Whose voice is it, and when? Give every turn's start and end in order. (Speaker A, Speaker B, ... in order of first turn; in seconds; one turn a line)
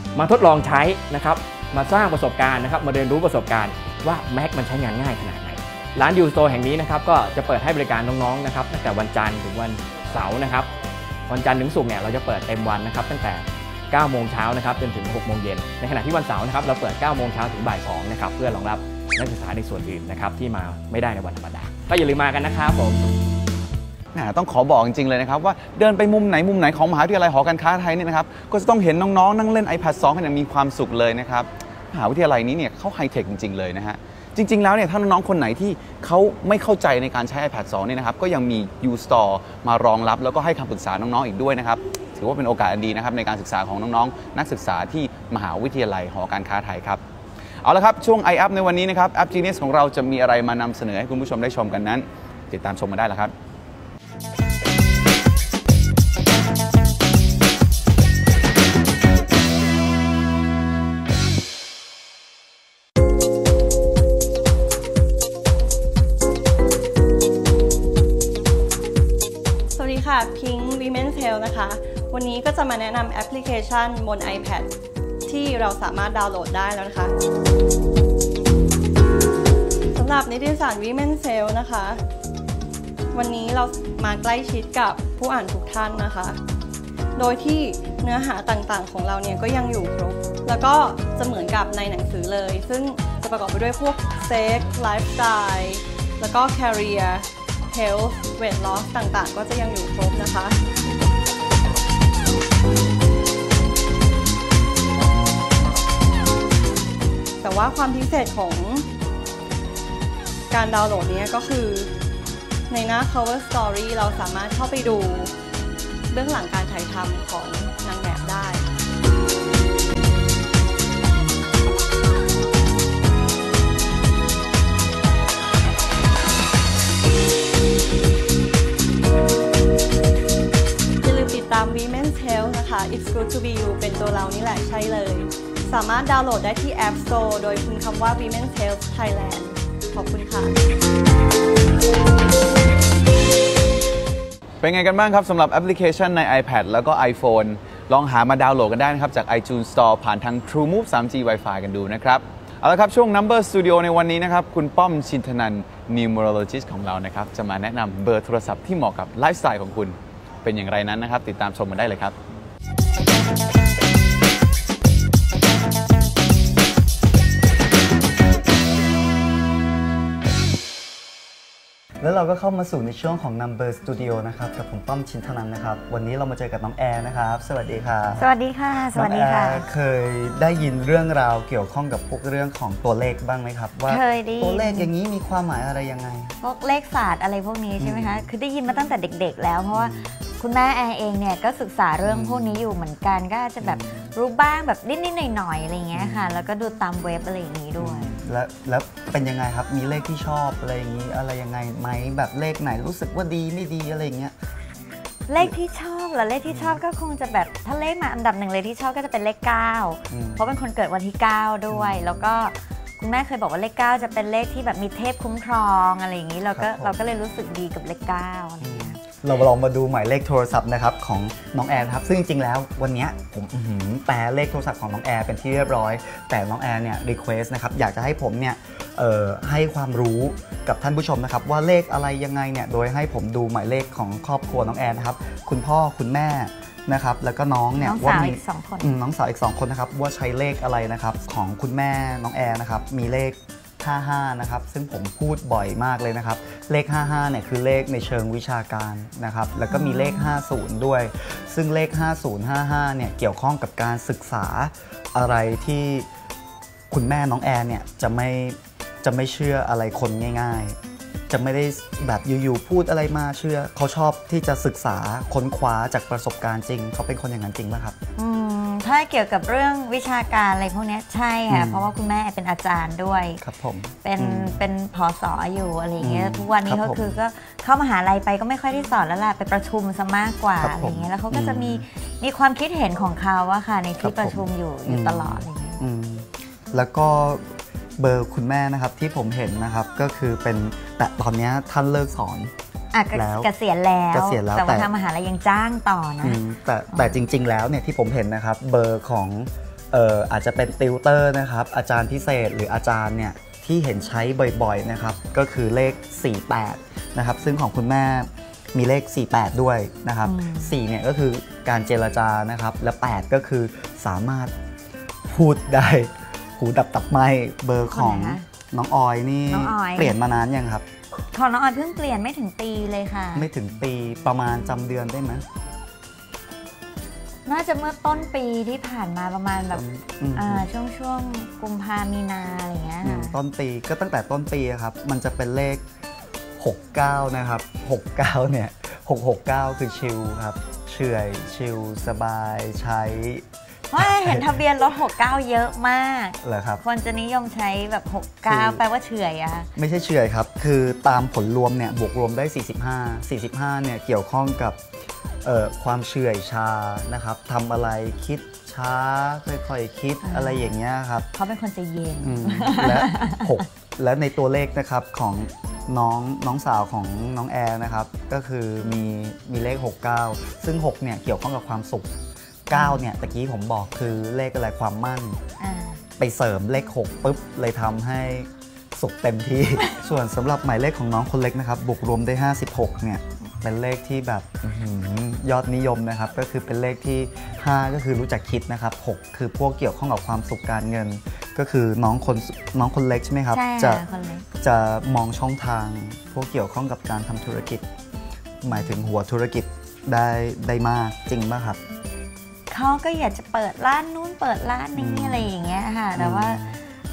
Speaker A: 0.1-10.7
Speaker A: 11.3-23.0
Speaker B: 24.1-47.0
Speaker B: 47.6-53.3
Speaker C: 69.8-74.7
Speaker C: 75.3-77.1
Speaker C: 79.9-82.0
Speaker C: 83.1-86.4
Speaker C: 87.2-100.6
Speaker C: 107.4-108.9
Speaker C: 110.5-111.9
Speaker C: 112.7-115.3
Speaker C: 116.1-118.7
Speaker C: 131.0-140.6
Speaker B: 144.6-162.2
Speaker D: 172.0-178.3
Speaker E: 178.2-179.6
Speaker D: 178.9-186.3
Speaker E: 183.9-184.9
Speaker E: 186.4-198.2
Speaker D: 187.8-188.3
Speaker D: 189.7-190.2
Speaker D: 192.0-192.7
Speaker D: 193.6-194.1
Speaker D: 195.9-196.4
Speaker D: 197.8-204.3
Speaker E: 205.3-218.9
Speaker D: 206.5-206.8
Speaker D: 210.1-210.5
Speaker D: 211.7-212.1
Speaker D: 216.5-217.0
Speaker D: 218.6-256.1
Speaker E: 237.8-238.9
Speaker E: 249.7-250.3
Speaker D: 256.9-260.8
Speaker D: 261.3-268.0
Speaker E: 268.2-273.4
Speaker D: 271.5-271.9
Speaker D: 273.4-274.6
Speaker E: 274.0-285.8
Speaker D: 276.0-277.2
Speaker D: 280.6-281.9
Speaker D: 284.0-292.5
Speaker E: 292.9-296.4
Speaker D: 293.1-293.5
Speaker D: 294.1-294.9
Speaker D: 296.2-314.5
Speaker E: 310.2-310.8
Speaker D: 315.2-320.9
Speaker E: 317.9-318.4
Speaker E: 319.5-320.1
Speaker E: 321.3-323.5
Speaker D: 323.3-325.4
Speaker E: 327.5-329.8
Speaker D: 329.7-330.7
Speaker E: 330.4-333.4
Speaker D: 333.0-335.9
Speaker D: 336.6-344.6
Speaker E: 343.9-349.7
Speaker D: 346.4-346.8
Speaker D: 348.5-348.8
Speaker D: 349.8-354.8
Speaker D: 355.4-361.3
Speaker E: 360.2-360.7
Speaker E: 361.4-363.6
Speaker D: 362.2-372.1
Speaker D: 372.7-375.4
Speaker E: 372.7-373.0
Speaker E: 375.6-376.0
Speaker D: 376.2-394.0
Speaker E: 393.5-394.5
Speaker D: 394.6-397.9
Speaker D: 398.6-401.8
Speaker E: 402.7-406.6
Speaker D: 404.9-405.5
Speaker D: 406.1-406.8